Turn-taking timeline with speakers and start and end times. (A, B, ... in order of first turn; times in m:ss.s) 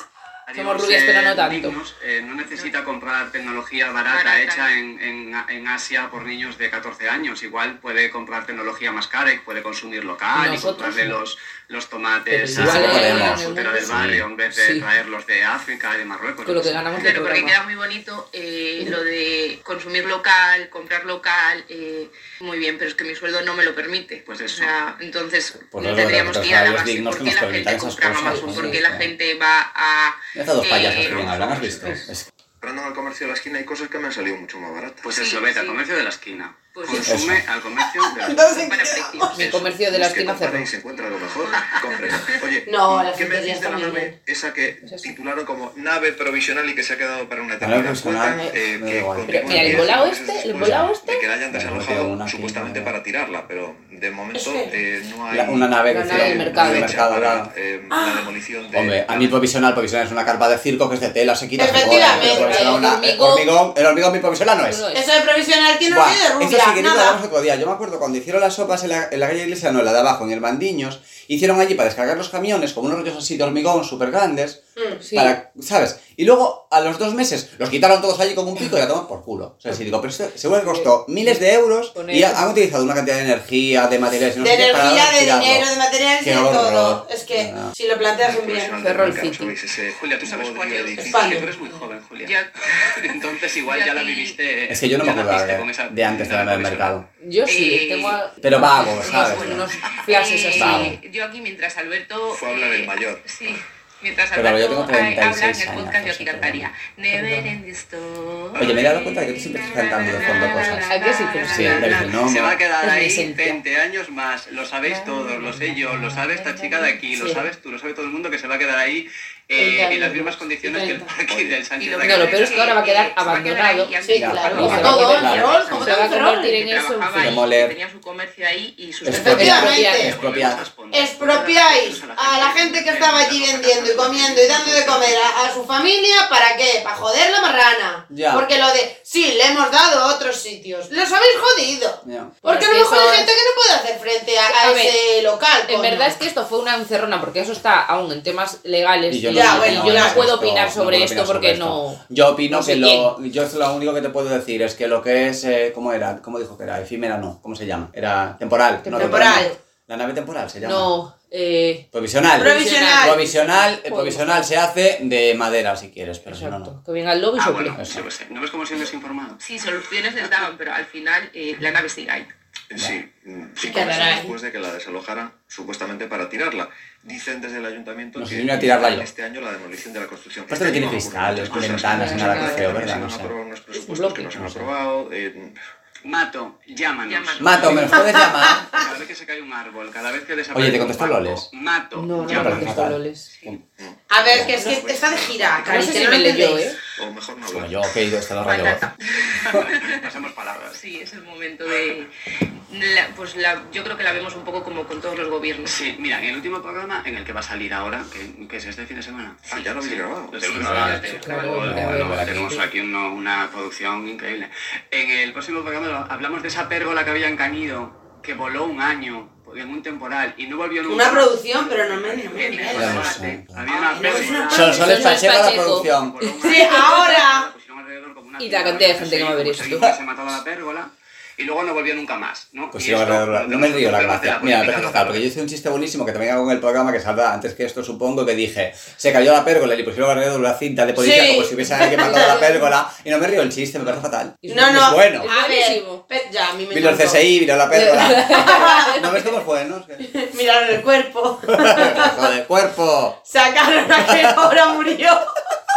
0:00.5-0:16.9 A
0:00.5-0:01.8 B
0:04.1-0:04.7 C
0:10.3-0:11.2 B
0:12.3-0:14.8 B
0:12.5-0:14.2 D
0:16.4-0:17.6 B
0:17.0-0:31.9 C
0:24.2-0:24.7 A
0:25.7-0:29.1 D
0:28.2-0:28.8 B
0:30.3-0:32.2 D
0:30.9-0:32.0 E
0:32.6-0:35.2 E
0:35.0-0:38.6 A
0:35.1-0:35.8 C
0:36.7-0:37.2 C
0:37.0-0:37.4 D
0:38.0-0:39.4 F
0:38.4-0:39.4 C
0:39.3-0:40.7 B
0:39.4-0:59.4 E
0:41.5-0:42.4 C
0:42.6-0:44.1 F
0:47.6-0:49.9 D
0:49.3-0:51.2 B
0:51.5-0:52.9 D
0:54.3-0:54.7 F
0:55.3-0:57.5 D
0:55.9-0:56.9 B
0:57.9-0:58.3 F
0:58.7-1:04.8 D
1:01.6-1:02.8 F
1:01.8-1:03.5 B
1:04.6-1:05.0 B
1:04.9-1:07.2 F
1:05.8-1:25.7 D
1:15.0-1:15.4 B
1:20.6-1:21.4 B
1:21.9-1:22.5 B
1:24.4-1:28.8 F
1:26.2-1:27.7 D
1:28.2-1:31.5 E
1:28.8-1:29.5 B
1:29.9-1:37.0 A
1:31.1-1:31.5 F
1:32.2-1:34.4 C
1:34.7-1:37.0 D
1:37.2-1:40.9 B
1:37.4-1:38.2 C
1:38.4-1:39.7 D
1:38.8-1:52.2 C
1:40.5-1:41.0 D
1:42.3-1:43.3 E
1:44.3-1:46.7 D
1:47.1-1:47.5 B
1:48.6-1:50.8 D
1:50.5-1:52.0 B
1:51.5-1:52.6 D
1:51.7-2:02.8 A
1:52.8-1:53.6 B
1:55.0-1:56.7 B
1:57.1-1:57.4 F
1:59.6-2:01.1 F
2:01.3-2:01.6 E
2:01.8-2:09.7 C
2:02.0-2:07.4 B
2:04.0-2:06.5 F
2:04.1-2:05.8 D
2:07.2-2:07.7 D
2:09.0-2:10.6 D
2:09.1-2:10.1 F
2:09.2-2:10.1 B
2:09.6-2:15.5 A
2:10.9-2:26.2 F
2:18.1-2:18.4 D
2:22.0-2:22.4 D
2:22.4-2:23.3 B
2:24.4-2:25.0 B
2:25.7-2:33.1 B
2:29.1-2:40.9 D
2:29.3-2:30.3 F
2:38.8-2:39.6 B
2:38.9-2:39.5 F
2:40.6-2:41.8 B
2:41.9-2:46.7 D
2:42.4-2:43.2 F
2:42.4-2:44.5 B
2:46.2-2:47.8 B
2:47.4-2:49.4 A
2:47.8-2:48.0 D
2:49.4-2:52.3 C
2:52.7-3:05.6 E
2:53.6-2:54.3 F
2:58.2-2:59.1 D
3:00.5-3:03.3 D
3:01.5-3:02.3 A
3:01.9-3:02.7 B
3:03.7-3:04.3 B
3:04.3-3:04.7 D
3:06.0-3:12.8 A
3:07.0-3:08.1 C
3:07.4-3:08.8 D
3:08.0-3:08.5 F
3:10.5-3:11.4 D
3:11.9-3:13.3 B
3:12.2-3:13.0 D
3:13.8-3:16.2 E
3:14.1-3:16.7 F
3:14.3-3:14.6 D
3:15.6-3:16.8 B
3:17.0-3:17.8 E
3:17.5-3:18.8 D
3:18.4-3:20.1 C
3:19.2-3:20.8 A
3:20.7-3:25.8 C
3:25.6-3:55.2 A
3:29.4-3:30.9 E
3:30.5-3:31.7 C
3:30.6-3:32.5 D
3:30.9-3:32.6 B
3:40.8-3:44.9 F
3:42.3-3:43.1 C
3:42.7-3:43.7 D
3:44.4-3:46.2 D
3:44.4-3:46.9 B
3:46.4-3:47.5 F
3:48.4-3:49.9 B
3:52.7-4:05.3 D
4:01.0-4:02.6 F
4:02.0-4:02.5 B
4:04.4-4:06.0 B
4:04.5-4:07.2 F
4:06.7-4:10.1 D
4:07.7-4:09.2 B
4:08.0-4:09.0 F
4:10.0-4:12.2 F
4:11.5-4:13.2 D
4:13.3-4:15.3 F
4:14.0-4:14.5 D